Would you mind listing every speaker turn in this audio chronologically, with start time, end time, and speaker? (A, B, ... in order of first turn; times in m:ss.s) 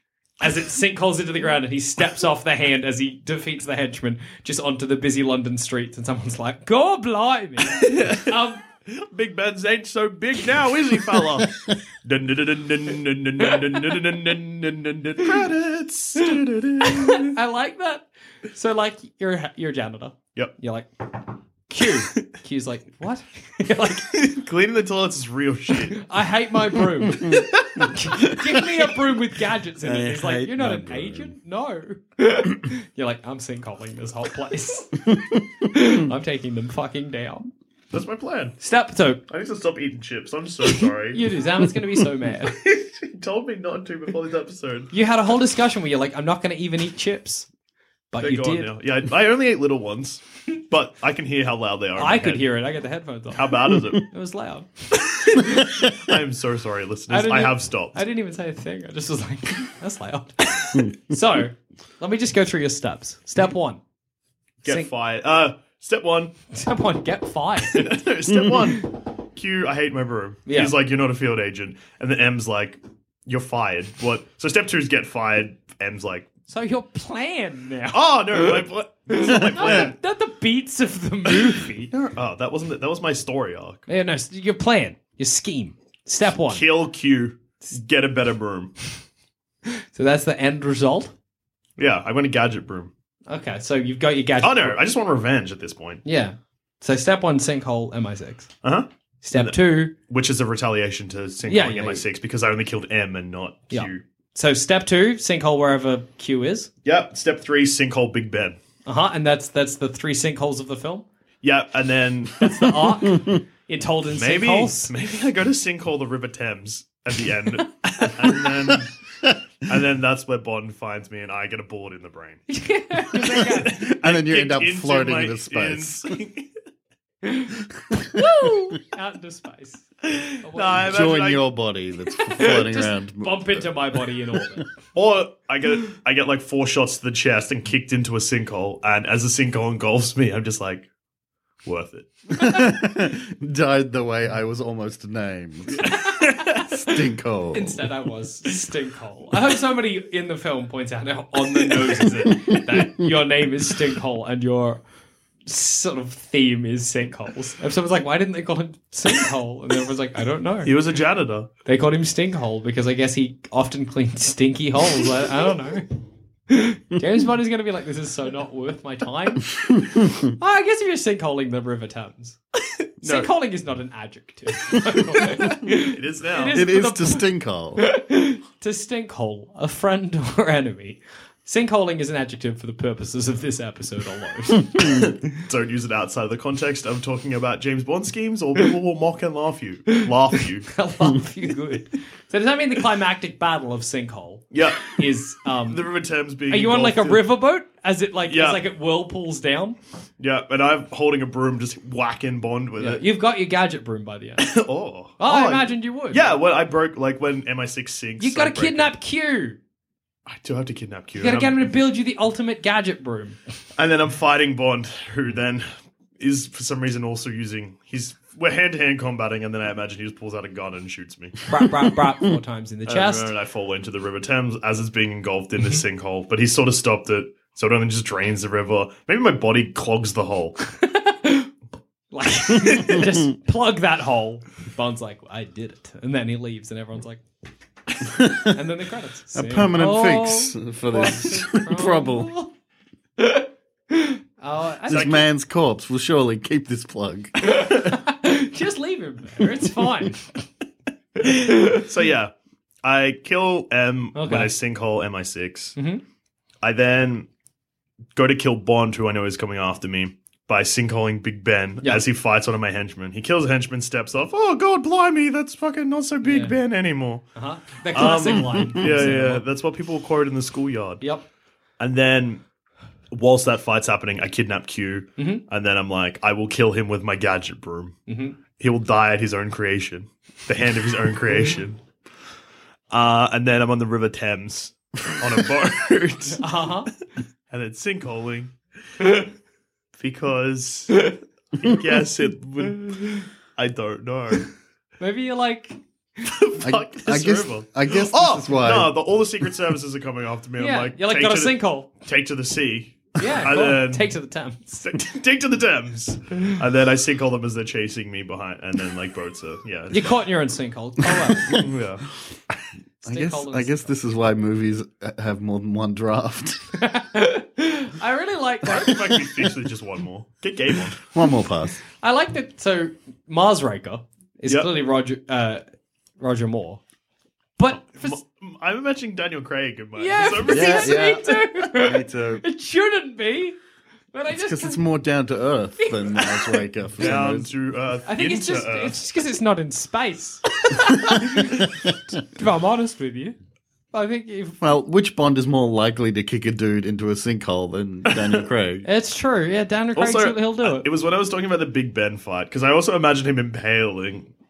0:00.4-0:08.6 A
0:07.8-0:08.3 B
0:08.9-0:17.3 B
0:16.8-0:24.1 A
0:24.1-0:26.0 B
0:25.9-0:35.1 A
0:27.1-0:27.5 C
0:29.8-0:31.3 C
0:35.1-0:35.4 C
0:35.7-0:37.5 A
0:37.9-0:38.6 B
0:38.6-0:39.2 A
0:39.3-0:41.2 B
0:41.1-0:42.6 A
0:42.5-0:44.9 B
0:44.9-0:47.5 A
0:48.1-0:48.7 A
0:48.2-0:52.5 B
0:52.0-0:54.7 A
0:53.3-0:54.0 B
0:54.9-0:58.0 B
0:55.3-0:55.6 A
0:57.1-1:03.8 A
1:04.6-1:06.3 B
1:06.5-1:08.0 A
1:07.6-1:16.3 B
1:10.5-1:10.7 A
1:16.5-1:21.9 A
1:17.9-1:19.9 B
1:21.9-1:23.8 B
1:23.9-1:26.6 A
1:26.5-1:28.7 B
1:29.9-1:31.1 A
1:31.8-1:32.9 B
1:33.3-1:34.8 A
1:34.4-1:36.0 B
1:36.0-1:38.5 A
1:38.6-1:44.0 B
1:39.2-1:39.9 A
1:41.5-1:42.0 A
1:43.7-1:46.7 A
1:46.8-1:48.6 B
1:48.8-1:51.0 A
1:51.4-1:52.7 B
1:52.4-1:54.9 A
1:54.1-1:58.9 B
1:59.6-2:02.4 B
2:02.5-2:03.8 A
2:03.4-2:06.5 B
2:03.7-2:06.0 C
2:08.1-2:09.9 A
2:10.4-2:11.0 A
2:10.5-2:11.4 B
2:10.8-2:14.0 C
2:12.1-2:14.7 A
2:14.9-2:20.9 B
2:21.6-2:22.2 B
2:22.4-2:25.9 C
2:25.8-2:27.0 A
2:26.5-2:27.9 C
2:27.5-2:34.8 A
2:32.5-2:33.0 C
2:35.4-2:40.7 A
2:40.6-2:41.5 B
2:41.6-2:45.9 A
2:46.5-2:49.5 A
2:49.7-2:50.1 C
2:50.4-2:52.4 A
2:53.0-2:57.3 A
2:53.0-2:53.3 B
2:55.8-2:56.6 B
2:56.5-2:57.8 C
2:57.8-3:05.0 A
3:05.4-3:10.7 B
3:10.7-3:15.8 A
3:14.5-3:15.0 B
3:15.7-3:17.2 B
3:16.5-3:19.8 A
3:18.3-3:18.6 B
3:20.2-3:23.0 B
3:22.8-3:24.5 A
3:24.4-3:28.9 B
3:25.2-3:26.2 A
3:28.2-3:29.6 A
3:30.2-3:31.8 B
3:31.2-3:33.4 A
3:33.8-3:35.6 B
3:36.2-3:41.4 B
3:41.5-3:43.3 A
3:42.9-3:50.6 B
3:50.7-3:51.5 A
3:52.1-3:57.2 A
3:52.7-3:53.0 C
3:58.1-3:58.6 C
3:58.2-4:02.5 A
3:59.3-4:02.3 C
4:03.2-4:05.1 A
4:04.9-4:07.6 C
4:04.9-4:05.2 B
4:07.5-4:10.2 A
4:11.7-4:12.3 B
4:12.8-4:15.8 B
4:14.1-4:14.5 A
4:15.8-4:16.0 A
4:16.6-4:17.3 B
4:18.1-4:27.2 B
4:21.8-4:22.1 A
4:26.2-4:26.6 A
4:27.3-4:29.4 A
4:27.9-4:31.0 B
4:28.6-4:28.9 C
4:31.0-4:31.2 A
4:31.8-4:32.4 B
4:33.1-4:38.0 B
4:35.2-4:35.4 A
4:38.1-4:38.4 A
4:38.6-4:41.8 B
4:42.9-4:46.6 B
4:46.4-4:46.9 A
4:47.5-4:48.5 B
4:50.0-4:54.5 B
4:55.0-4:55.8 A
4:56.2-5:04.1 B
4:56.6-4:58.9 C
5:00.6-5:01.9 A
5:03.2-5:04.9 A
5:04.8-5:10.2 B
5:09.9-5:11.6 A
5:11.4-5:12.0 B
5:13.0-5:13.9 A
5:13.0-5:16.7 C
5:16.8-5:18.9 A
5:18.6-5:21.0 B
5:21.1-5:21.8 C
5:22.0-5:25.6 A
5:24.4-5:24.7 B
5:26.2-5:26.8 A
5:27.6-5:28.2 A
5:27.8-5:31.0 B
5:30.0-5:33.6 A
5:30.4-5:32.4 C
5:34.1-5:34.8 A
5:34.3-5:37.5 C
5:35.8-5:36.6 A
5:37.0-5:39.1 B
5:38.1-5:41.7 A
5:42.3-5:43.4 A
5:43.9-5:44.6 A
5:44.6-5:48.9 C
5:48.1-5:48.4 B
5:48.8-5:50.9 A
5:49.9-5:54.3 B